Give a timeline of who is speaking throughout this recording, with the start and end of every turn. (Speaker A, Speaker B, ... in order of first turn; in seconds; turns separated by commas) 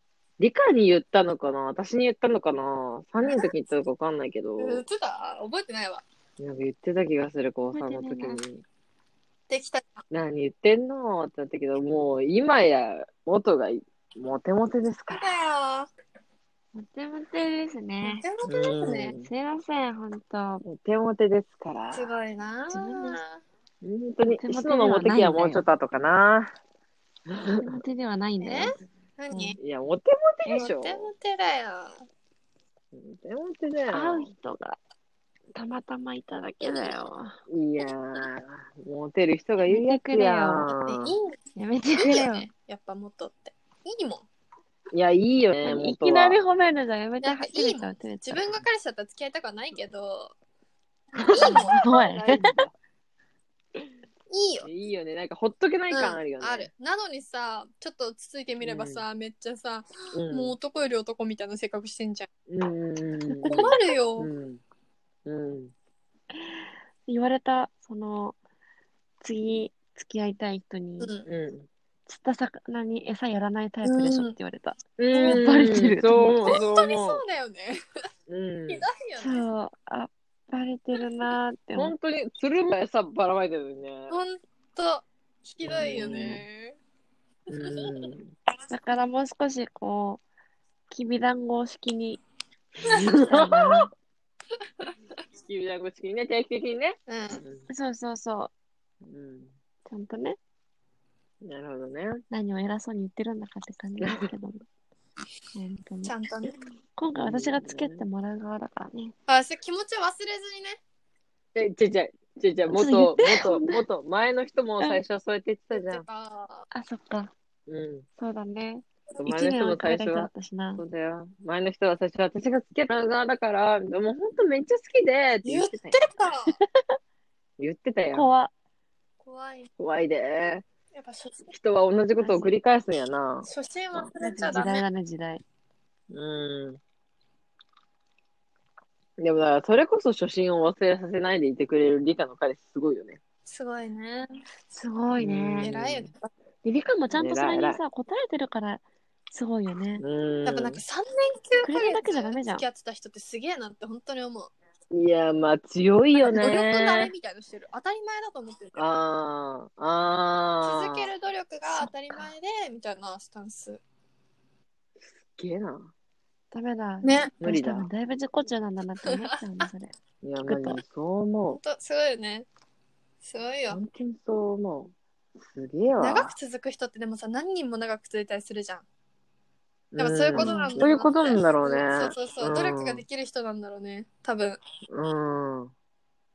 Speaker A: 0.4-4.8, Speaker B: 3.2-3.5, Speaker B: 4.6-6.0, Speaker A: 6.4-8.7, Speaker C: 7.7-8.4, Speaker B: 9.5-10.0, Speaker A: 10.1-15.3, Speaker B: 15.1-15.9, Speaker C: 16.7-18.2, Speaker B: 18.0-19.1, Speaker A: 18.5-19.3, Speaker C: 19.2-20.6, Speaker A: 20.6-22.1, Speaker B: 21.9-23.4, Speaker C: 22.7-23.2, Speaker A: 23.8-26.5, Speaker C: 24.3-25.6, Speaker A: 27.3-27.6, Speaker C: 27.6-28.7, Speaker B: 28.4-29.6, Speaker C: 29.3-29.6, Speaker A: 29.6-31.1, Speaker B: 30.4-32.0, Speaker A: 32.9-34.3, Speaker C: 33.9-34.8, Speaker C: 35.5-37.4, Speaker B: 36.6-36.9, Speaker A: 37.5-41.2, Speaker C: 39.6-40.7, Speaker B: 40.9-41.4, Speaker C: 41.6-42.5, Speaker B: 42.0-44.3, Speaker A: 44.9-46.4, Speaker C: 45.6-48.4, Speaker B: 47.2-50.3, Speaker B: 51.1-52.1, Speaker C: 51.2-52.5, Speaker A: 51.3-52.7, Speaker B: 54.3-54.7, Speaker A: 54.6-56.7, Speaker B: 55.9-62.3, Speaker A: 58.6-59.0, Speaker A: 60.1-60.5, Speaker A: 62.5-64.6, Speaker C: 63.3-63.8, Speaker B: 63.5-64.3, Speaker A: 65.3-65.7, Speaker C: 66.4-68.4, Speaker C: 69.2-71.1, Speaker B: 71.0-71.3, Speaker A: 71.3-71.7, Speaker C: 72.1-76.6, Speaker B: 73.8-74.4, Speaker A: 75.0-77.2, Speaker B: 75.1-75.5, Speaker B: 76.4-77.8, Speaker A: 78.3-78.8, Speaker B: 78.7-79.5, Speaker C: 79.2-81.9, Speaker A: 81.8-84.2, Speaker B: 84.1-86.8, Speaker A: 85.6-86.4, Speaker C: 85.8-86.4, Speaker A: 87.5-88.3, Speaker C: 88.7-90.2, Speaker C: 90.9-92.2, Speaker A: 92.8-93.9, Speaker B: 92.9-93.8, Speaker C: 93.3-93.9, Speaker A: 95.4-97.7, Speaker B: 97.1-97.4, Speaker C: 97.7-98.5, Speaker A: 99.0-99.5, Speaker C: 99.9-100.4, Speaker A: 101.4-102.2, Speaker C: 102.3-104.6, Speaker A: 104.0-104.3, Speaker C: 105.5-106.1, Speaker B: 106.0-106.5, Speaker C: 107.0-109.2, Speaker A: 107.2-108.0, Speaker B: 109.3-110.8, Speaker A: 111.5-116.0, Speaker C: 112.7-113.8, Speaker B: 115.7-116.7, Speaker C: 116.7-117.3, Speaker A: 117.7-118.1, Speaker C: 118.2-120.8, Speaker A: 119.2-126.0, Speaker B: 125.4-126.6, Speaker A: 127.6-128.3, Speaker C: 128.1-128.5, Speaker B: 129.2-129.7, Speaker A: 129.8-130.7, Speaker B: 130.9-131.5, Speaker A: 131.5-134.1, Speaker C: 132.2-132.6, Speaker B: 133.4-134.8, Speaker C: 134.2-135.4, Speaker A: 136.1-136.8, Speaker A: 139.2-143.2, Speaker B: 143.5-144.4, Speaker C: 144.7-145.7, Speaker A: 145.2-146.1, Speaker B: 145.6-146.3, Speaker C: 146.6-150.0, Speaker A: 147.1-147.8, Speaker A: 150.0-150.8, Speaker B: 150.5-154.5, Speaker C: 151.6-152.7, Speaker A: 154.9-157.1, Speaker B: 156.2-158.8, Speaker A: 158.8-161.1, Speaker B: 160.6-163.8, Speaker C: 161.7-162.3, Speaker A: 165.0-165.9, Speaker C: 166.5-169.9, Speaker B: 167.0-167.3, Speaker A: 167.4-167.9, Speaker B: 169.1-169.3, Speaker A: 170.2-171.6, Speaker C: 170.4-170.8, Speaker B: 171.6-172.5, Speaker B: 173.2-173.8, Speaker A: 173.7-176.3, Speaker B: 176.0-178.8, Speaker A: 179.9-183.0, Speaker B: 180.0-184.6, Speaker C: 180.3-180.9, Speaker A: 184.9-185.7